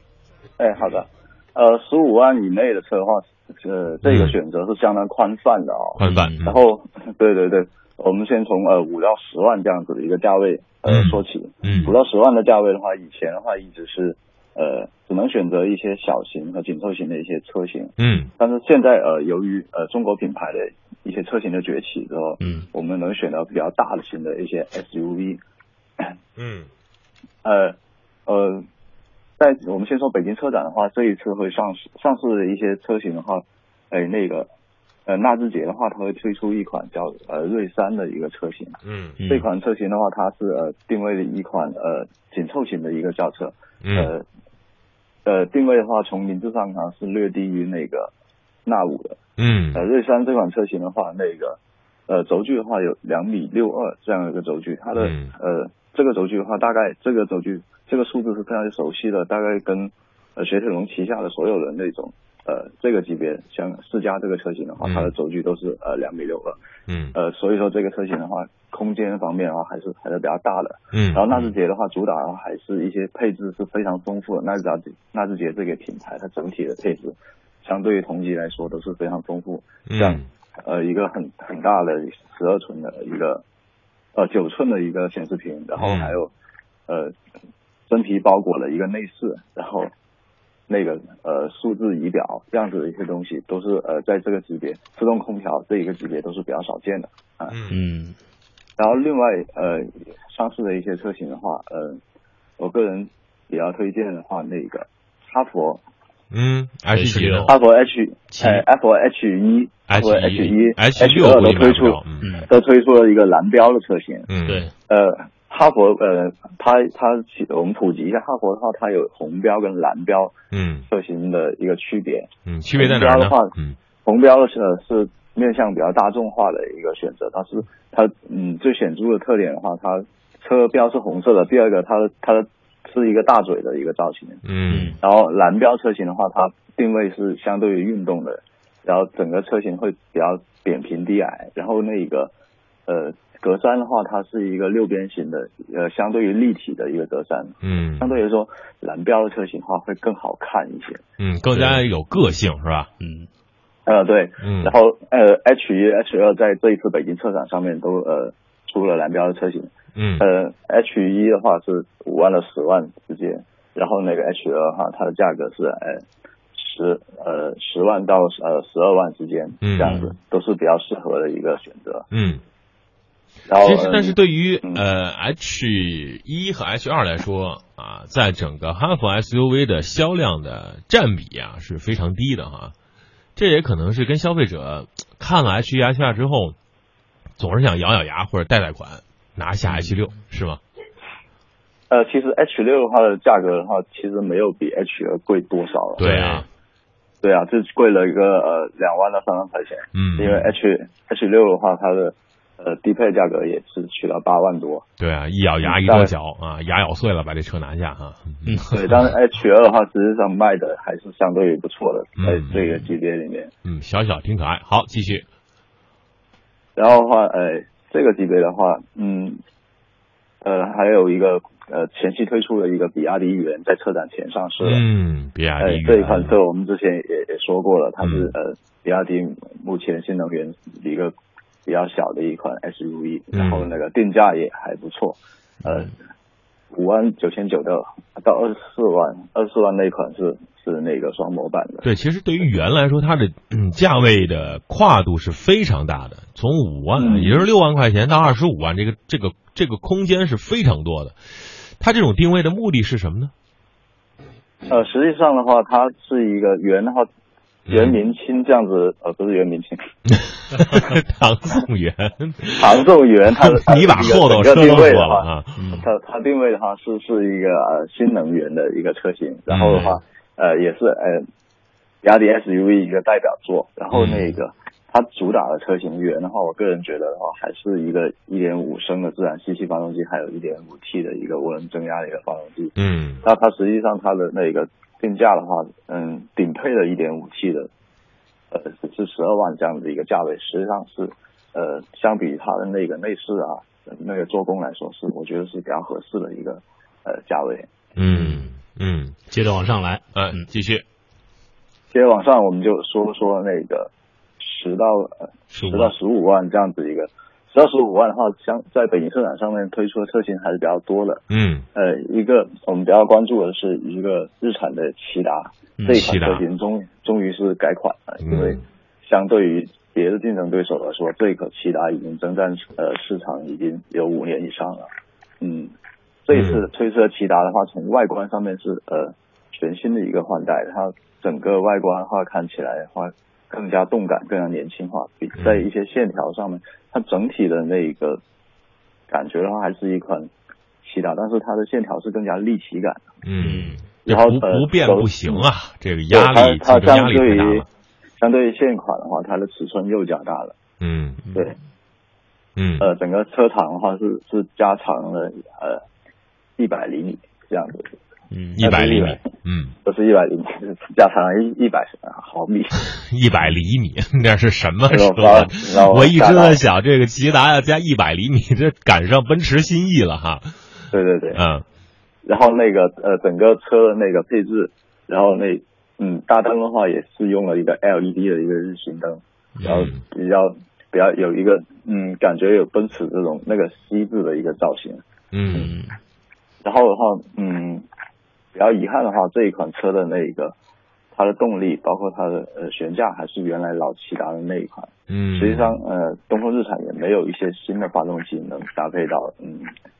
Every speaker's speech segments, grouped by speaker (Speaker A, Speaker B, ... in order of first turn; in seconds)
Speaker A: 0.6-25.4, 27.4-28.6, 29.4-34.5, 35.0-44.2, 45.2-48.1, 48.6-49.1, 49.7-51.6, 52.1-66.6, 67.1-83.4, 84.1-86.3, 86.9-87.1, 87.9-89.9, 90.7-97.5, 98.8-102.0, 102.6-105.8, 107.5-114.3, 114.9-120.3, 120.9-134.4, 135.0-142.3, 142.9-151.0, 153.8-166.0, 166.5-172.1, 173.5-174.8, 191.9-196.0, 197.2-204.8, 205.6-206.1, 208.7-213.5, 216.8-219.4, 220.4-224.8, 225.6-231.1, 231.7-235.9, 236.7-241.9, 247.0-247.5, 254.7-257.1, 257.7-259.8, 262.6-271.2, 272.0-287.7, 288.5-297.7, 301.9-311.2, 311.7-324.9, 325.4-325.7, 326.3-338.2, 339.1-340.3, 340.8-343.0, 344.0-345.4, 346.1-347.6, 348.2-350.6, 352.8-355.8, 356.6-357.9, 358.6-359.2, 359.8-362.7, 364.9-366.6, 370.9-371.4, 372.2-385.0, 386.6-387.9, 388.5-390.5, 391.1-399.7
Speaker B: 4.0-4.4, 6.0-6.6, 10.8-11.9, 18.0-18.3, 26.4-26.7, 38.8-39.2, 43.8-44.1, 49.4-49.8, 55.0-55.3, 64.8-65.1, 66.9-67.1, 70.9-71.5, 79.9-80.2, 85.8-86.2, 97.5-97.8, 106.3-107.5, 109.9-112.2, 114.3-114.7, 120.5-120.8, 122.5-123.8, 134.4-134.9, 147.6-148.1, 151.2-152.9, 154.4-154.7, 159.9-160.2, 169.6-170.1, 172.1-172.4, 173.6-182.7, 183.3-186.6, 187.4-190.6, 196.0-196.5, 199.9-200.5, 205.0-209.1, 212.2-212.6, 213.6-215.2, 224.6-226.3, 228.0-228.3, 233.3-233.7, 241.8-253.3, 257.7-257.9, 260.1-262.8, 263.3-265.8, 269.5-269.9, 273.9-274.3, 282.8-283.2, 297.9-299.2, 300.1-300.8, 311.3-311.6, 315.9-316.4, 318.2-318.6, 326.3-326.6, 335.4-335.6, 343.2-347.6, 350.8-351.2, 352.6-352.9, 358.6-359.7, 363.0-370.5, 371.3-371.6, 379.6-380.0, 385.3-385.7, 395.1-395.8
Speaker C: 6.0-6.4, 22.4-22.7, 39.2-39.5, 97.7-98.2, 106.9-107.5, 108.3-108.6, 112.2-112.5, 114.4-114.7, 134.7-135.0, 151.5-151.8, 153.0-153.3, 189.7-190.0, 196.0-196.4, 208.4-208.9, 212.5-212.8, 265.6-265.9, 269.6-270.0, 298.0-298.5, 299.3-300.4, 305.5-305.9, 315.8-316.1, 343.4-343.8, 351.2-351.5, 358.3-358.6, 379.6-379.9, 385.5-386.0